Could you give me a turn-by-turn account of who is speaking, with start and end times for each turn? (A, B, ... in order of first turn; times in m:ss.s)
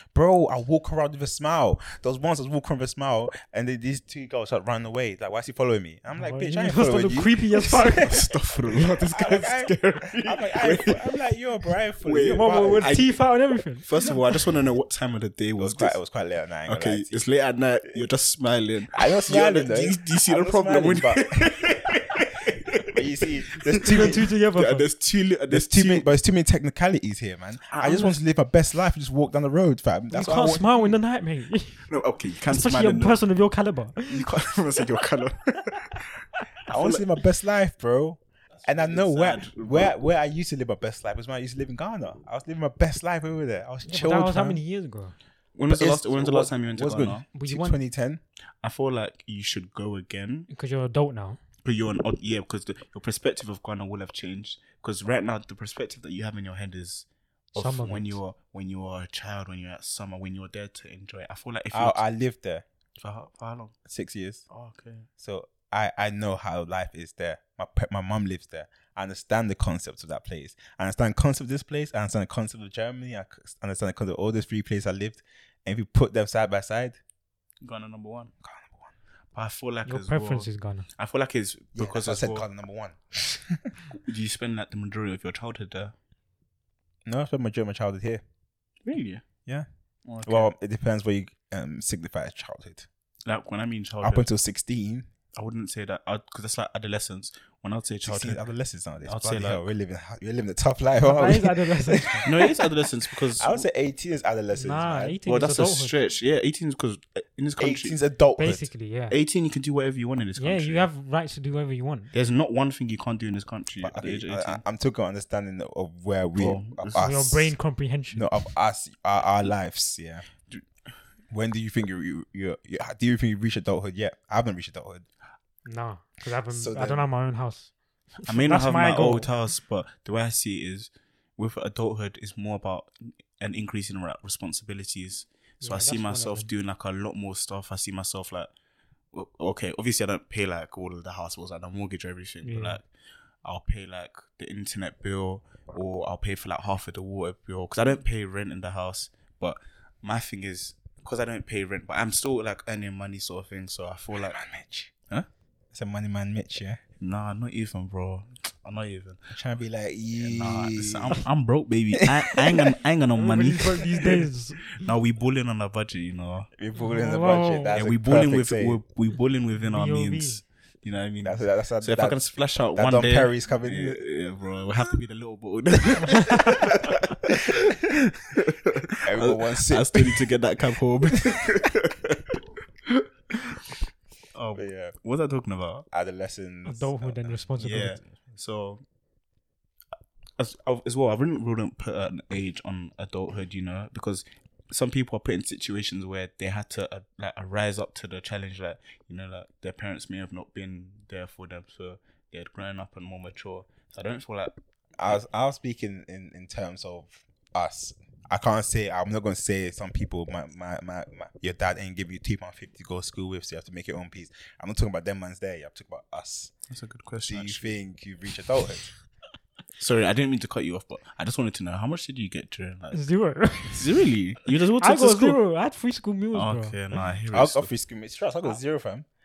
0:00.1-0:08.2 A
0:06.2-0:08.2 B
0:07.9-0:11.2 C
0:08.7-0:13.0 A
0:12.0-0:13.1 C
0:12.3-0:14.2 B
0:13.8-0:16.0 C
0:15.6-0:17.2 A
0:16.6-0:26.1 C
0:18.9-0:24.3 A
0:23.8-0:24.8 B
0:25.5-0:30.7 A
0:27.7-0:28.2 C
0:30.1-0:31.9 B
0:31.8-0:33.2 C
0:32.4-0:34.3 B
0:34.1-0:37.0 C
0:36.7-0:44.6 A
0:38.5-0:40.0 C
0:43.8-0:45.1 B
0:45.6-0:47.2 C
0:45.7-0:48.2 A
0:47.3-0:47.8 B
0:48.6-0:50.5 C
0:50.5-0:51.4 B
0:51.6-1:02.0 C
0:57.5-0:58.2 B
1:01.7-1:02.6 A
1:03.0-1:03.7 C
1:03.8-1:04.4 A
1:04.5-1:05.1 C
1:05.2-1:17.0 A
1:17.6-1:18.3 C
1:18.4-1:18.9 A
1:19.3-1:22.4 C
1:19.9-1:20.9 B
1:21.8-1:23.7 A
1:23.9-1:25.9 C
1:27.0-1:28.2 A
1:28.8-1:29.2 C
1:30.0-1:30.5 C
1:30.2-1:32.9 A
1:33.2-1:34.3 C
1:34.0-1:35.1 A
1:35.4-1:38.4 C
1:38.0-1:42.5 A
1:39.0-1:39.6 C
1:41.0-1:42.3 B
1:42.2-1:43.6 C
1:43.3-1:45.1 A
1:44.5-1:46.0 B
1:45.2-1:48.0 C
1:47.6-1:48.7 A
1:48.4-1:49.1 B
1:49.1-1:50.9 C
1:50.4-1:52.1 B
1:52.1-1:54.6 C
1:53.8-1:57.5 A
1:56.4-1:57.1 C
1:56.9-1:58.5 B
1:58.1-2:00.2 A
2:01.3-2:05.0 A
2:05.6-2:09.3 B
2:06.5-2:07.0 A
2:08.2-2:18.5 C
2:15.6-2:16.5 B
2:19.1-2:22.9 C
2:22.4-2:22.8 B
2:23.4-2:34.4 C
2:34.1-2:34.9 A
2:35.7-2:36.8 A
2:37.0-2:39.3 C
2:39.3-2:41.2 A
2:40.1-2:46.5 C
2:42.2-2:42.7 A
2:43.2-2:44.8 B
2:46.6-2:48.8 A
2:46.7-2:47.8 B
2:47.7-3:03.6 C
2:49.6-2:50.4 B
2:51.2-2:54.0 A
2:59.0-3:00.3 A
3:04.3-3:05.9 C
3:04.6-3:04.9 A
3:05.9-3:08.1 A
3:06.6-3:08.0 B
3:07.6-3:08.8 C
3:10.4-3:24.5 C
3:25.0-3:36.5 A
3:36.7-3:37.7 C
3:37.3-3:38.9 A
3:39.8-3:43.0 C
3:42.9-3:44.0 B
3:43.7-3:45.4 C
3:44.6-3:46.8 B
3:46.3-3:47.7 C
3:47.3-3:49.0 A